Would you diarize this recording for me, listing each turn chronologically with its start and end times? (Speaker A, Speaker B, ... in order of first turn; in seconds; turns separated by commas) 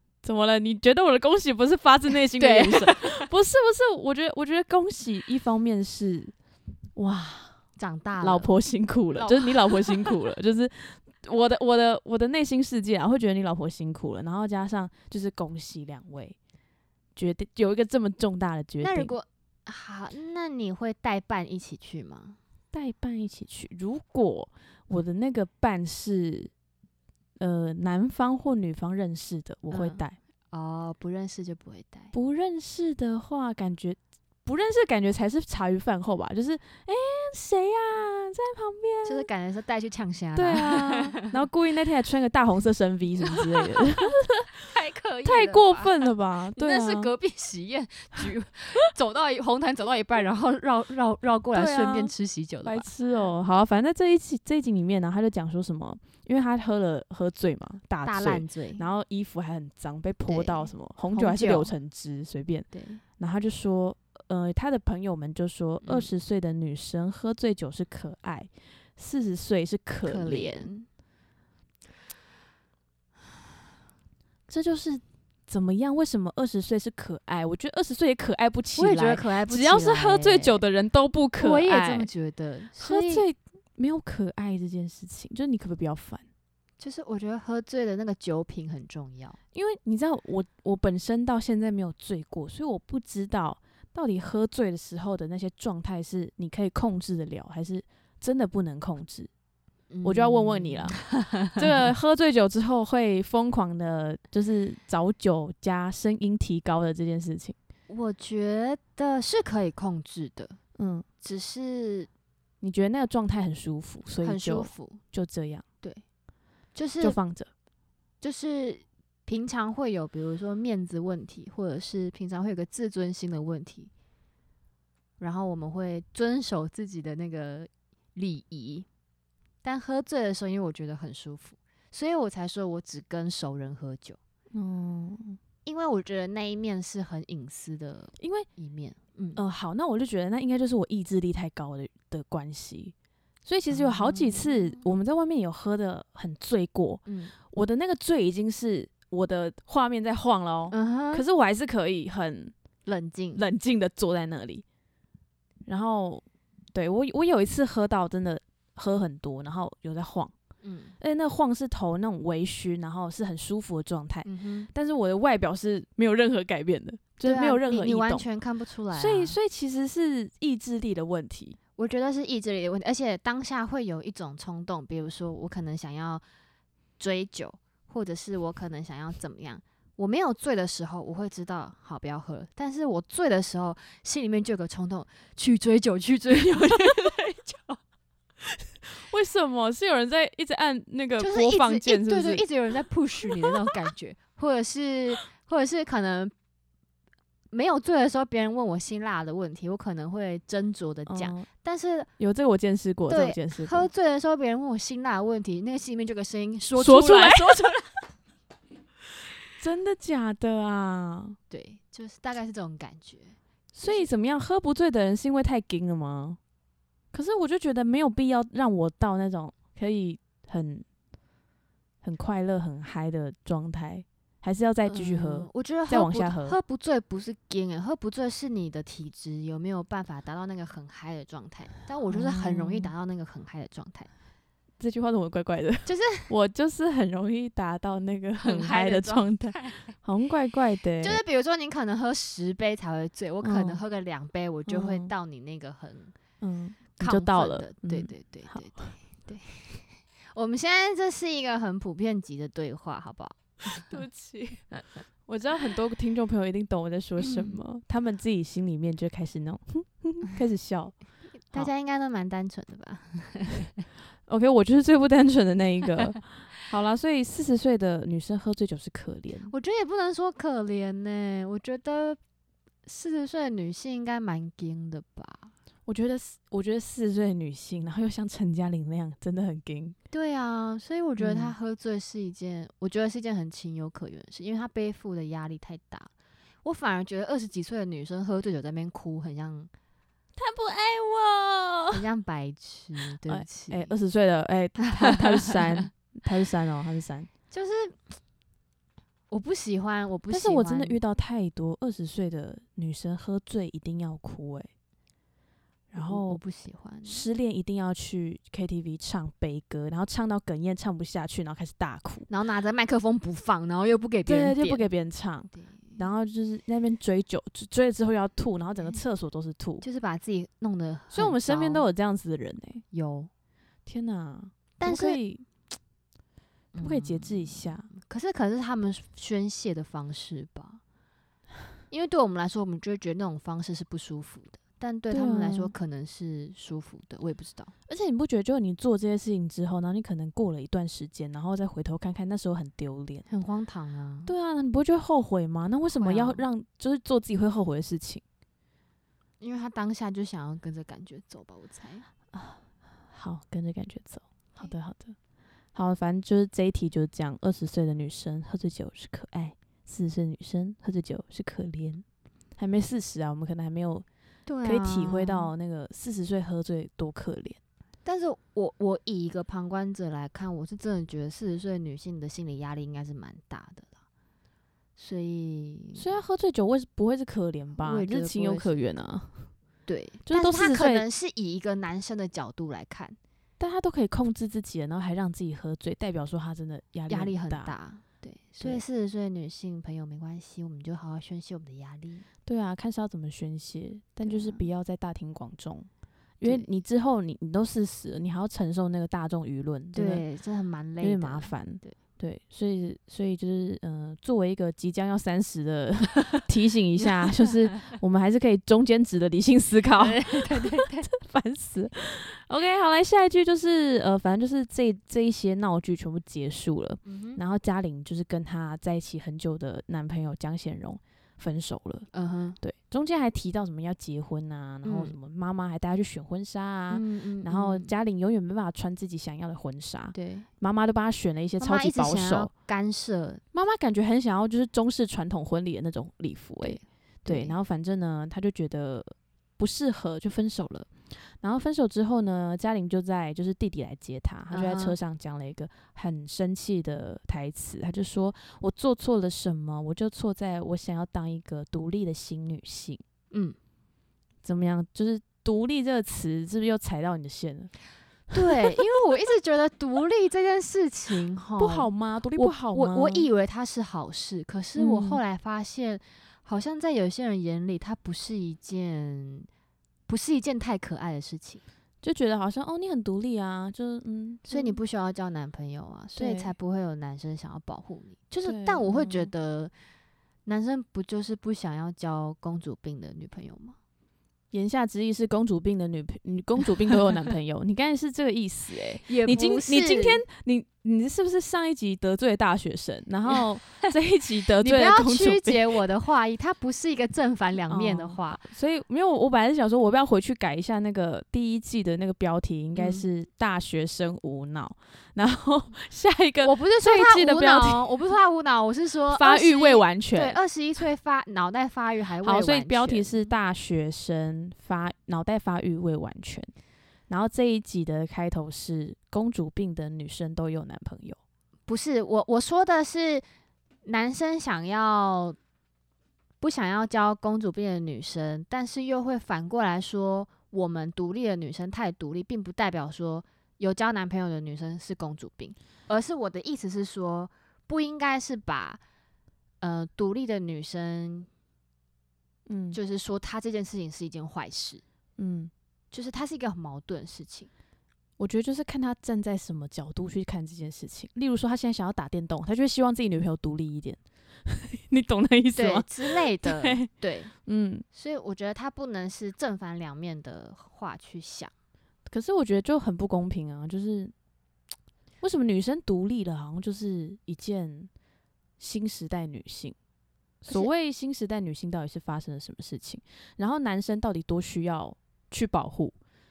Speaker A: 0.2-6.3, Speaker B: 2.3-3.3, Speaker A: 7.0-7.5, Speaker B: 7.8-8.5, Speaker A: 8.2-16.4, Speaker B: 9.1-10.2, Speaker A: 17.2-19.1, Speaker B: 18.8-22.4, Speaker A: 22.7-26.5, Speaker A: 27.4-30.2, Speaker B: 29.7-32.1, Speaker A: 32.1-39.3, Speaker B: 39.0-41.4, Speaker A: 40.4-44.5, Speaker B: 43.2-52.9, Speaker A: 45.2-47.1, Speaker A: 51.5-52.1, Speaker A: 52.6-70.7, Speaker B: 58.0-58.9, Speaker B: 60.3-61.7, Speaker B: 62.7-63.0, Speaker B: 65.8-66.1, Speaker B: 70.0-70.9, Speaker A: 74.5-82.1, Speaker B: 78.8-80.6, Speaker B: 81.4-83.3, Speaker A: 82.8-86.2, Speaker B: 86.8-89.4, Speaker A: 89.5-99.3, Speaker B: 99.9-101.7, Speaker A: 100.0-101.0, Speaker A: 101.6-107.6, Speaker B: 107.9-110.6, Speaker A: 110.8-111.1, Speaker B: 111.2-112.1, Speaker A: 112.6-115.6, Speaker B: 114.2-115.0, Speaker B: 116.8-117.2, Speaker A: 117.0-117.5, Speaker B: 118.2-123.9, Speaker B: 125.2-128.9, Speaker B: 129.6-134.2, Speaker A: 134.5-135.4, Speaker B: 135.7-139.4, Speaker A: 138.2-138.5, Speaker A: 139.4-142.9, Speaker A: 143.4-152.5, Speaker B: 143.7-144.9, Speaker B: 147.1-147.3, Speaker B: 150.7-151.2, Speaker B: 152.8-153.4, Speaker A: 153.3-154.6, Speaker A: 155.7-160.3, Speaker B: 160.6-161.0, Speaker A: 161.0-168.3, Speaker B: 164.2-164.7, Speaker B: 167.2-169.4, Speaker A: 168.9-171.6, Speaker B: 171.8-176.2, Speaker B: 177.0-187.8, Speaker A: 186.4-187.1, Speaker A: 188.4-192.4, Speaker B: 191.2-196.3, Speaker B: 197.5-202.1, Speaker A: 201.1-201.5, Speaker A: 202.2-203.9, Speaker B: 203.1-207.8, Speaker A: 206.8-207.8, Speaker A: 209.6-211.4, Speaker B: 211.5-214.1, Speaker A: 213.7-216.4, Speaker A: 217.1-220.8, Speaker A: 222.0-226.6, Speaker B: 224.9-234.1, Speaker A: 232.1-232.9, Speaker A: 234.8-241.2, Speaker B: 235.9-236.3, Speaker B: 238.4-239.9, Speaker B: 241.0-246.2, Speaker A: 243.4-243.8, Speaker A: 244.7-245.1, Speaker A: 246.4-248.7, Speaker B: 247.0-253.9, Speaker A: 253.7-254.7, Speaker A: 255.3-260.9, Speaker B: 257.2-257.6, Speaker B: 261.5-263.9, Speaker A: 264.3-269.5, Speaker B: 269.5-272.2, Speaker B: 272.9-275.5, Speaker A: 275.9-280.0, Speaker B: 280.1-286.1, Speaker A: 281.2-281.6, Speaker B: 286.6-289.7, Speaker A: 290.4-292.0, Speaker B: 291.9-293.9, Speaker A: 293.3-297.3, Speaker B: 294.8-295.9, Speaker B: 297.5-298.0, Speaker B: 299.3-301.0, Speaker A: 300.3-304.7, Speaker A: 305.9-306.4, Speaker B: 306.0-307.3, Speaker A: 307.1-312.3, Speaker B: 312.3-314.9, Speaker A: 314.3-319.9, Speaker B: 315.5-316.0, Speaker B: 319.8-321.9, Speaker A: 321.1-322.9, Speaker B: 322.9-323.3, Speaker A: 323.9-325.5, Speaker B: 324.8-325.2, Speaker B: 326.7-330.8, Speaker A: 326.8-327.9, Speaker B: 331.9-337.7, Speaker A: 335.1-335.7, Speaker A: 337.9-343.3, Speaker B: 343.3-344.3, Speaker A: 344.3-348.2, Speaker B: 345.9-346.4, Speaker B: 349.4-352.1, Speaker A: 352.3-355.1, Speaker A: 355.8-362.0, Speaker A: 362.6-364.1, Speaker B: 364.5-365.5, Speaker A: 364.6-367.6, Speaker B: 368.1-373.9, Speaker B: 375.0-376.2, Speaker A: 375.9-379.5, Speaker B: 377.8-378.8, Speaker B: 379.9-383.2, Speaker A: 380.3-381.1, Speaker A: 383.6-387.7, Speaker B: 387.1-392.3, Speaker A: 392.5-395.9, Speaker B: 394.2-394.6, Speaker A: 396.4-400.2, Speaker B: 396.4-396.7, Speaker B: 399.9-402.0, Speaker A: 401.0-422.1, Speaker B: 407.0-407.8, Speaker B: 410.0-411.1, Speaker B: 417.1-417.4, Speaker B: 422.1-422.6, Speaker A: 422.6-432.5, Speaker B: 424.8-425.1, Speaker B: 426.9-427.9, Speaker B: 430.1-430.5, Speaker B: 431.6-433.4, Speaker A: 433.5-453.0, Speaker B: 436.6-437.6, Speaker B: 444.5-445.0, Speaker B: 453.3-453.6, Speaker A: 454.4-457.7, Speaker B: 458.3-469.5, Speaker A: 461.6-463.3, Speaker A: 464.8-465.2, Speaker B: 470.1-471.6, Speaker A: 472.0-474.8, Speaker B: 474.5-479.7, Speaker A: 476.2-476.5, Speaker A: 478.4-479.3, Speaker B: 480.5-483.8, Speaker A: 484.5-495.7, Speaker B: 489.1-490.2, Speaker B: 493.3-493.9, Speaker B: 494.6-498.4, Speaker A: 497.7-508.1, Speaker B: 502.8-503.0, Speaker B: 506.4-513.1, Speaker A: 509.1-510.4, Speaker A: 512.2-516.5, Speaker A: 517.1-521.2, Speaker B: 521.7-523.2, Speaker B: 523.9-525.4, Speaker B: 526.4-538.8, Speaker B: 539.6-541.3, Speaker A: 542.5-542.8, Speaker B: 542.7-544.8, Speaker A: 545.2-545.5, Speaker B: 545.9-547.5, Speaker A: 548.2-557.9, Speaker B: 555.6-557.3, Speaker B: 557.9-561.5, Speaker A: 562.1-564.1, Speaker A: 565.2-567.9, Speaker A: 568.6-569.8, Speaker A: 570.4-576.0